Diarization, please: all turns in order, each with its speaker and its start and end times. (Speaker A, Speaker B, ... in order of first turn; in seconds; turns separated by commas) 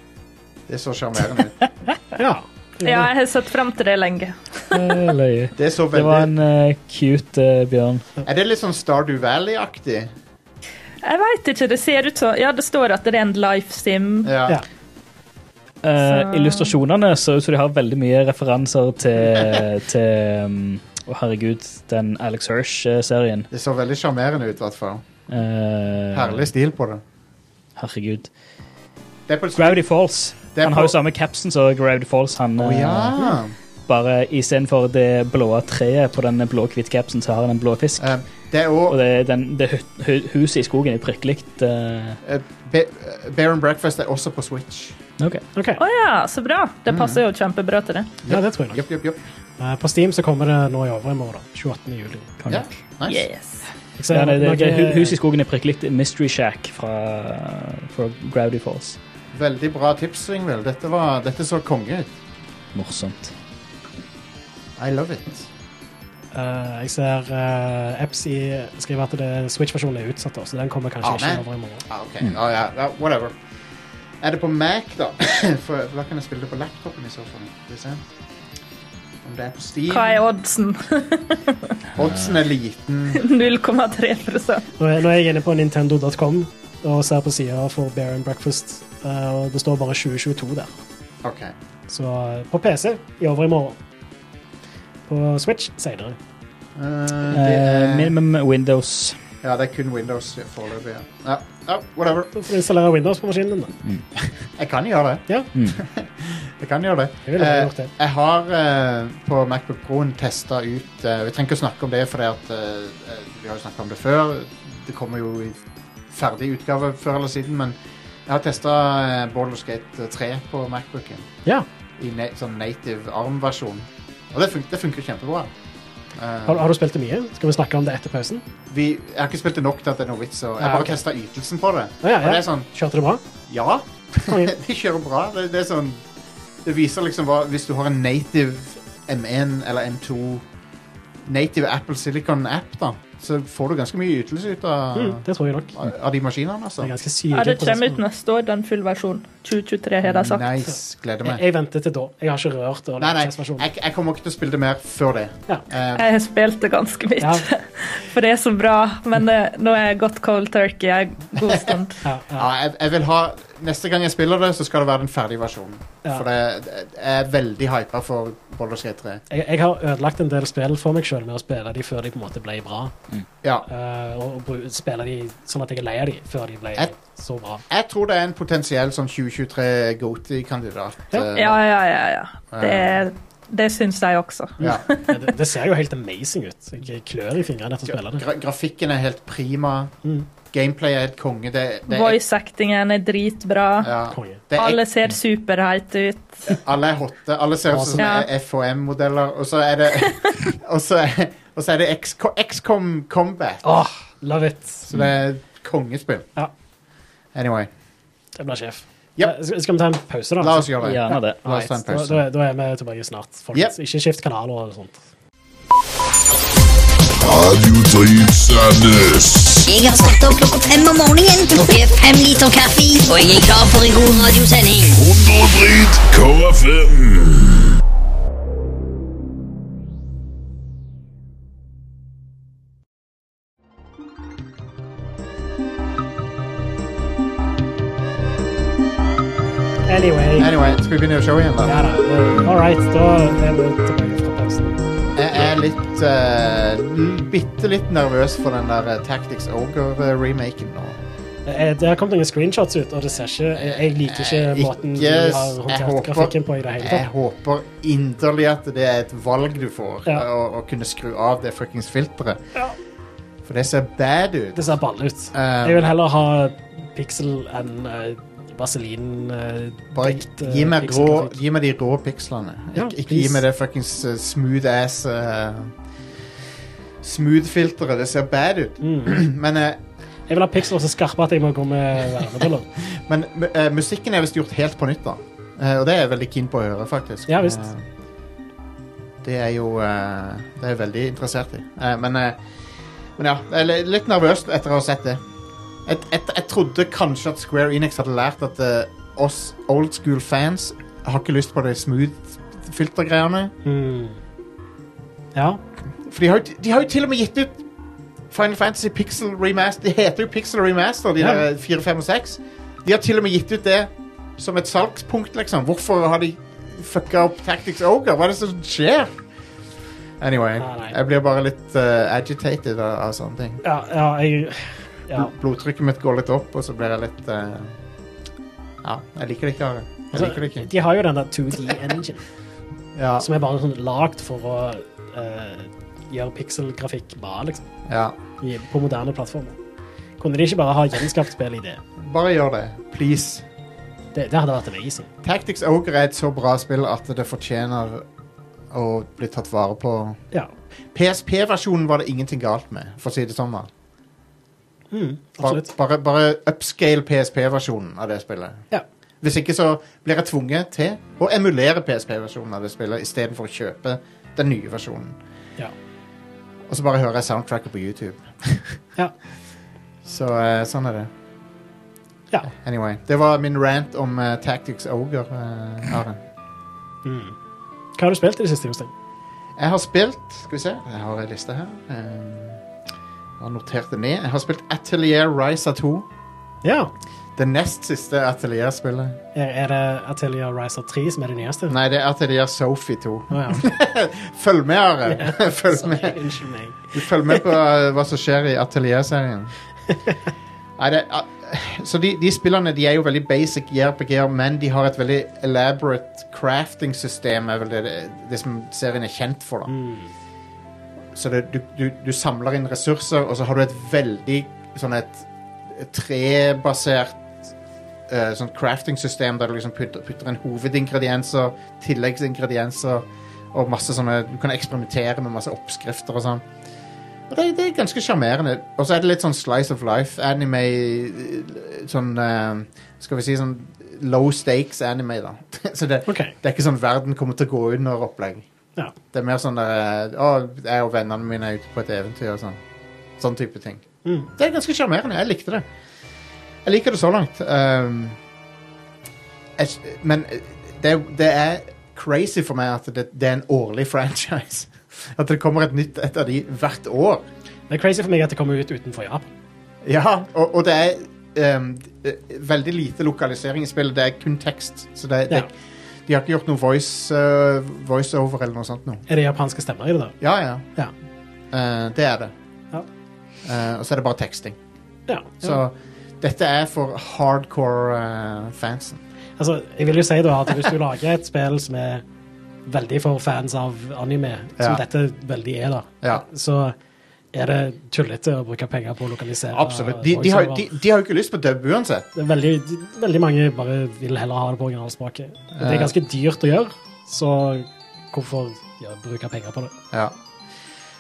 Speaker A: 0.7-1.6, Speaker B: 2.2-3.1, Speaker C: 2.8-4.9, Speaker D: 4.7-8.1, Speaker A: 5.5-6.3, Speaker A: 8.2-10.1, Speaker C: 11.0-14.3, Speaker A: 14.2-14.6, Speaker D: 15.8-23.5, Speaker C: 16.0-16.7, Speaker A: 23.5-25.0, Speaker D: 25.3-26.5, Speaker A: 26.1-27.0, Speaker D: 27.8-28.3, Speaker A: 29.3-29.9, Speaker D: 29.6-33.2, Speaker A: 30.5-30.9, Speaker A: 32.6-33.5, Speaker D: 33.9-38.1, Speaker A: 38.0-39.0, Speaker D: 38.9-42.2, Speaker A: 42.2-45.0, Speaker D: 45.2-45.4, Speaker B: 45.5-45.8, Speaker C: 45.8-48.1, Speaker A: 46.9-47.2, Speaker A: 48.2-49.2, Speaker B: 48.3-48.8, Speaker B: 49.6-52.3, Speaker D: 52.4-52.7, Speaker A: 52.5-53.3, Speaker C: 53.1-53.7, Speaker B: 54.0-55.2, Speaker D: 54.1-59.0, Speaker A: 59.3-62.1, Speaker D: 62.7-63.3, Speaker A: 64.8-65.5, Speaker B: 66.3-71.9, Speaker A: 71.0-73.4, Speaker A: 74.2-78.0, Speaker A: 79.2-80.2, Speaker C: 79.9-81.7, Speaker A: 82.0-83.3, Speaker C: 83.2-84.7, Speaker B: 84.8-90.7, Speaker A: 91.2-91.5, Speaker B: 91.9-93.8, Speaker B: 95.1-96.2, Speaker A: 96.8-98.2, Speaker D: 97.3-99.2, Speaker A: 99.4-102.4, Speaker B: 102.3-103.7, Speaker A: 104.2-121.3, Speaker D: 105.5-105.8, Speaker B: 107.3-107.9, Speaker A: 122.0-125.5, Speaker A: 126.2-126.7, Speaker B: 126.5-128.4, Speaker A: 128.7-132.7, Speaker B: 130.6-131.0, Speaker B: 132.0-133.2, Speaker A: 133.5-136.0, Speaker B: 134.3-134.5, Speaker A: 136.6-140.4, Speaker A: 141.2-146.9, Speaker B: 144.9-145.9, Speaker B: 146.8-148.0, Speaker C: 147.3-150.6, Speaker A: 150.0-151.4, Speaker B: 151.2-153.7, Speaker A: 153.0-156.1, Speaker C: 156.0-162.0, Speaker B: 157.2-157.5, Speaker A: 161.4-161.7, Speaker B: 162.0-162.5, Speaker A: 162.3-169.2, Speaker B: 169.3-172.9, Speaker B: 173.7-177.7, Speaker A: 177.7-181.6, Speaker C: 181.3-185.2, Speaker A: 182.5-183.0, Speaker B: 184.6-188.2, Speaker A: 184.6-184.9, Speaker A: 187.9-189.9, Speaker A: 190.5-192.2, Speaker C: 191.9-194.0, Speaker A: 193.8-194.8, Speaker B: 194.1-194.4, Speaker C: 194.5-196.5, Speaker A: 196.5-203.7, Speaker B: 197.7-198.1, Speaker C: 198.0-198.3, Speaker B: 203.6-204.9, Speaker A: 204.9-206.3, Speaker A: 207.3-207.7, Speaker B: 208.4-215.0, Speaker A: 210.4-212.2, Speaker D: 210.8-211.4, Speaker E: 217.2-219.7, Speaker F: 219.7-225.0, Speaker E: 224.9-227.7, Speaker B: 239.9-240.5, Speaker A: 240.4-241.8, Speaker B: 241.6-244.8, Speaker A: 245.2-251.0, Speaker B: 251.5-257.1, Speaker A: 253.5-262.4, Speaker A: 263.4-264.6, Speaker B: 264.6-271.4, Speaker A: 265.3-265.9, Speaker A: 269.9-275.7, Speaker B: 272.8-273.4, Speaker A: 277.0-279.8, Speaker B: 278.8-279.2, Speaker B: 280.3-282.7, Speaker A: 282.8-287.9, Speaker B: 287.3-287.7, Speaker A: 289.2-292.4, Speaker A: 293.2-295.2, Speaker A: 295.9-303.5, Speaker B: 303.6-304.2, Speaker B: 305.4-305.6, Speaker A: 306.0-307.6, Speaker A: 308.3-319.1, Speaker B: 311.2-311.4, Speaker A: 320.2-323.6, Speaker B: 320.6-321.0, Speaker B: 323.6-325.3, Speaker A: 325.1-327.8, Speaker A: 328.8-330.7, Speaker B: 330.1-332.2, Speaker A: 333.0-333.3, Speaker B: 333.2-337.7, Speaker A: 337.9-338.1, Speaker B: 338.4-339.6, Speaker B: 340.2-341.8, Speaker A: 342.0-343.4, Speaker B: 344.1-345.1, Speaker A: 345.2-348.1, Speaker A: 348.7-350.2, Speaker A: 350.9-353.7, Speaker B: 354.9-355.7, Speaker A: 355.4-358.6, Speaker A: 359.2-365.2, Speaker A: 366.7-368.8, Speaker A: 370.1-371.1, Speaker A: 372.5-376.2, Speaker B: 377.1-377.4, Speaker B: 378.0-378.9, Speaker A: 379.6-382.6, Speaker A: 383.4-386.1, Speaker B: 386.6-386.9, Speaker A: 387.4-389.2, Speaker B: 389.4-391.8, Speaker A: 391.7-396.2, Speaker B: 393.3-393.7, Speaker B: 395.1-397.4, Speaker A: 396.9-399.5, Speaker B: 399.9-400.2, Speaker A: 400.8-409.7, Speaker B: 409.7-410.1, Speaker A: 411.1-417.3, Speaker A: 418.1-426.4, Speaker A: 427.3-438.4, Speaker B: 436.1-436.3, Speaker A: 439.1-442.6, Speaker A: 443.2-445.6, Speaker A: 446.6-448.2, Speaker A: 449.6-457.2, Speaker B: 457.7-459.3, Speaker A: 459.8-465.5, Speaker A: 466.1-469.0, Speaker B: 469.1-470.1, Speaker A: 470.2-470.7, Speaker A: 471.5-472.3, Speaker A: 473.4-474.6, Speaker B: 475.1-475.6, Speaker A: 475.4-479.0, Speaker B: 479.4-482.0, Speaker B: 482.7-486.8, Speaker B: 487.3-490.7, Speaker A: 489.5-492.1, Speaker B: 492.1-499.7, Speaker A: 495.6-495.9